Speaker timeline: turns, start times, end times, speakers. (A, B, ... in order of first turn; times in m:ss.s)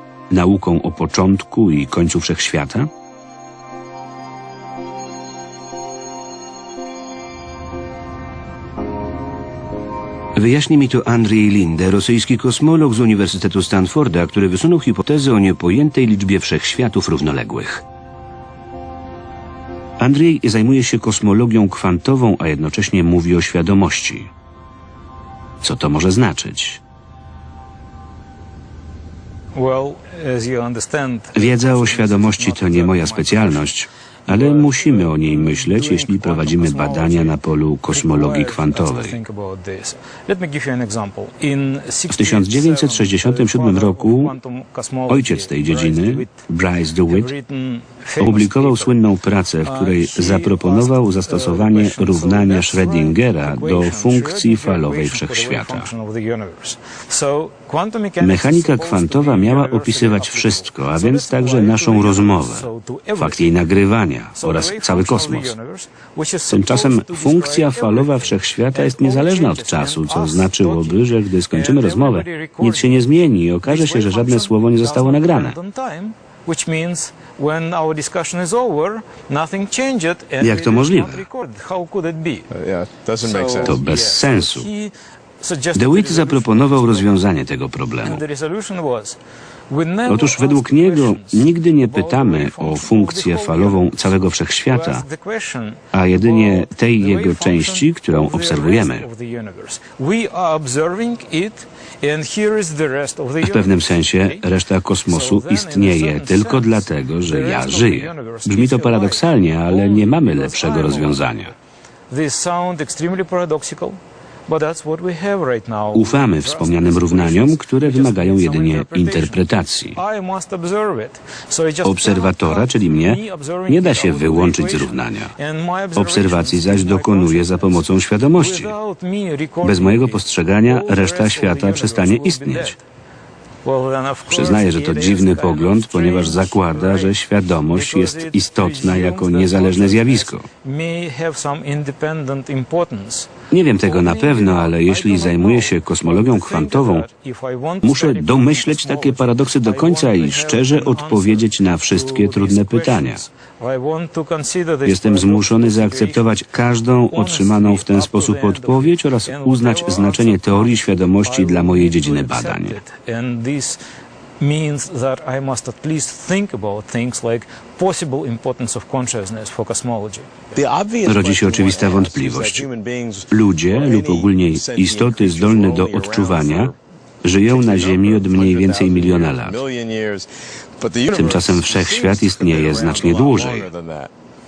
0:00.3-0:02.9 A
0:10.4-0:17.8 A
0:20.0-0:24.3 A
0:25.6-0:26.8 A
0:29.5-0:46.5 B
0:31.3-0:39.2 A
0:42.1-0:44.3 A
0:45.1-0:47.3 A
0:47.1-0:49.0 B
0:48.2-0:55.9 A
0:49.6-1:03.6 B
0:58.2-1:05.5 A
1:04.4-1:22.5 B
1:06.5-1:15.6 A
1:20.4-1:21.2 A
1:22.5-1:23.8 C
1:23.2-1:27.2 B
1:23.6-1:24.7 A
1:25.8-1:28.2 A
1:28.0-1:29.2 B
1:29.7-1:44.5 B
1:30.1-1:35.0 A
1:35.9-1:39.1 A
1:43.4-1:51.5 A
1:45.0-1:51.6 B
1:52.1-2:12.8 B
1:55.9-2:00.0 A
2:01.8-2:05.3 A
2:06.0-2:08.7 A
2:09.6-2:12.8 A
2:13.6-2:36.4 B
2:14.3-2:20.4 A
2:23.5-2:27.1 A
2:27.8-2:33.2 A
2:34.9-2:42.8 A
2:37.1-2:43.8 B
2:44.4-2:50.3 B
2:50.5-2:56.8 C
2:51.0-2:52.7 A
2:53.3-2:59.6 A
2:57.4-3:04.1 C
3:01.1-3:03.7 A